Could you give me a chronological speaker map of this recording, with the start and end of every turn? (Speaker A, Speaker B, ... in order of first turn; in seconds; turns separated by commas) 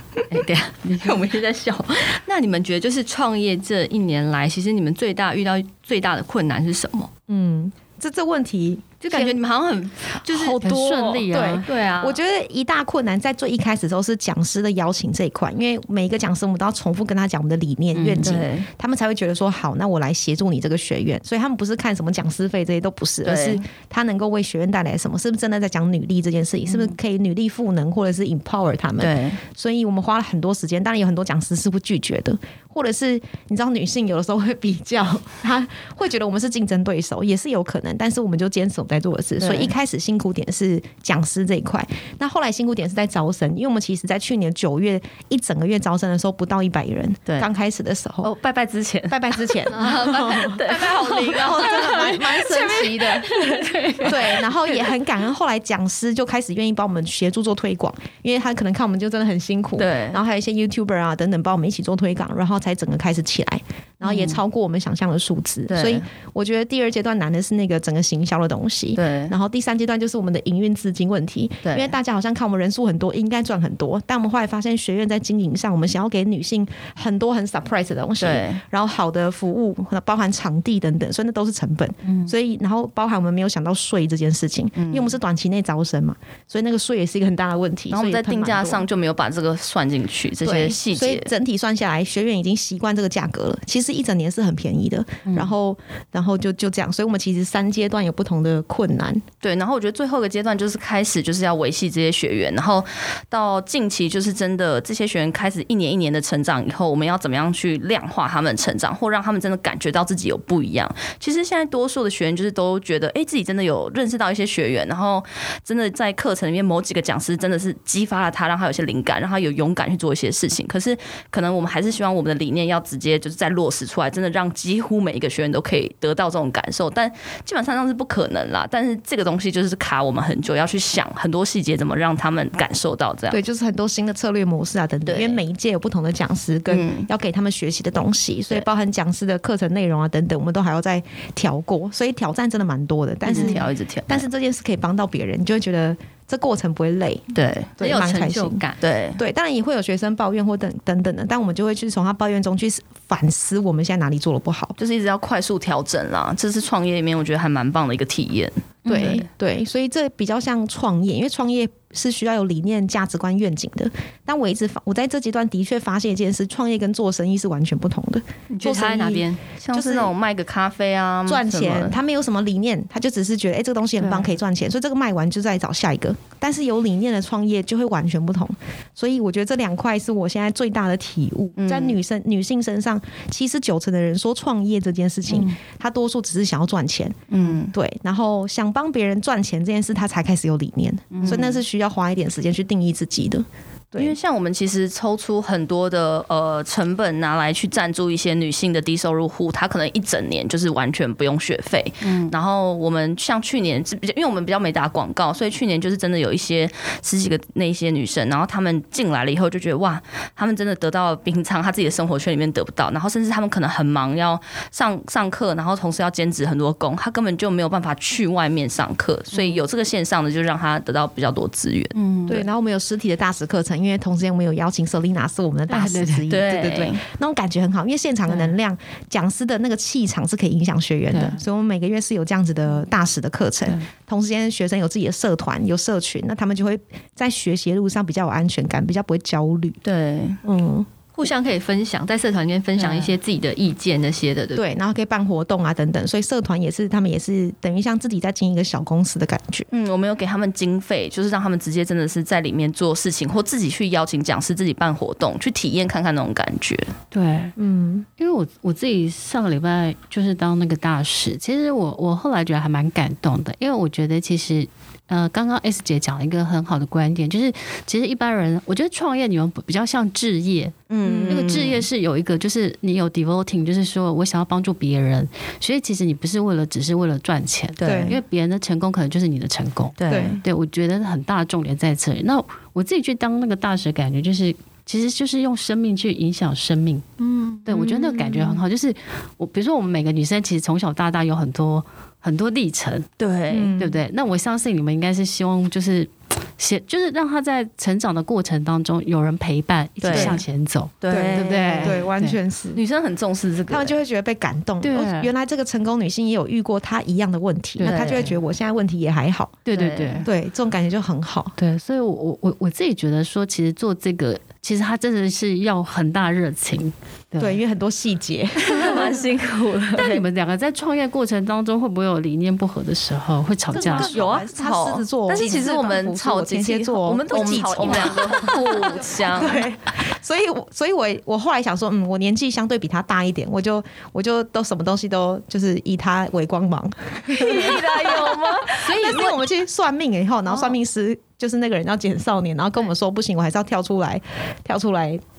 Speaker A: 0.3-7.1, Speaker B: 7.3-9.4, Speaker A: 9.0-12.2, Speaker C: 10.6-11.7, Speaker B: 11.3-48.3, Speaker C: 17.9-18.4, Speaker D: 18.2-18.7, Speaker D: 23.2-23.6, Speaker D: 29.0-29.4, Speaker D: 39.4-39.7, Speaker D: 48.2-53.3, Speaker B: 49.1-53.3, Speaker A: 49.7-54.1, Speaker C: 53.2-54.1, Speaker B: 54.0-88.8, Speaker D: 59.8-60.2, Speaker D: 64.0-64.4, Speaker D: 65.7-66.0, Speaker D: 69.0-69.3, Speaker D: 71.6-71.9, Speaker D: 78.2-78.6, Speaker C: 82.0-82.3, Speaker D: 84.8-85.2, Speaker D: 87.9-91.3, Speaker B: 90.4-99.2, Speaker D: 99.4-133.4, Speaker B: 133.3-147.2, Speaker D: 135.1-135.4, Speaker D: 136.7-137.1, Speaker D: 143.2-144.2, Speaker D: 147.3-147.8, Speaker B: 147.8-148.6, Speaker A: 147.8-148.8, Speaker D: 148.8-149.2, Speaker B: 149.2-154.8, Speaker D: 154.8-159.2, Speaker C: 158.9-159.2, Speaker B: 158.9-170.1, Speaker A: 168.5-169.4, Speaker D: 169.6-172.0, Speaker B: 171.3-194.2, Speaker D: 181.6-182.0, Speaker D: 187.3-187.7, Speaker D: 191.2-191.6, Speaker D: 194.0-222.0, Speaker C: 202.0-202.3, Speaker C: 222.0-222.4, Speaker B: 222.3-239.8, Speaker C: 225.7-226.3, Speaker D: 226.3-227.0, Speaker C: 231.1-231.4, Speaker D: 239.8-240.4, Speaker B: 240.4-240.9, Speaker A: 241.1-244.6, Speaker D: 242.8-243.1, Speaker B: 244.5-249.7, Speaker D: 249.7-256.9, Speaker C: 257.1-257.6, Speaker B: 257.6-258.1, Speaker C: 258.2-270.8, Speaker D: 270.9-271.9, Speaker B: 271.0-271.6, Speaker C: 271.3-287.1, Speaker D: 277.8-278.1, Speaker B: 277.8-278.2, Speaker D: 280.0-280.4, Speaker B: 280.1-280.4, Speaker A: 287.2-287.7, Speaker C: 287.7-293.1, Speaker B: 287.9-288.5, Speaker D: 293.2-293.7, Speaker B: 293.5-294.0, Speaker C: 293.8-302.4, Speaker D: 300.0-300.4, Speaker B: 300.1-300.4, Speaker D: 301.0-302.0, Speaker B: 301.1-302.8, Speaker D: 302.8-304.0, Speaker B: 303.7-309.6, Speaker C: 304.8-305.3, Speaker C: 307.8-308.4, Speaker D: 307.8-308.3, Speaker C: 309.7-310.3, Speaker D: 309.7-310.2, Speaker B: 310.2-311.6, Speaker C: 311.6-317.6, Speaker B: 317.4-319.2, Speaker D: 318.6-320.2, Speaker C: 320.0-324.2, Speaker B: 323.7-345.2, Speaker D: 323.8-329.6, Speaker D: 337.3-339.2, Speaker A: 338.8-339.4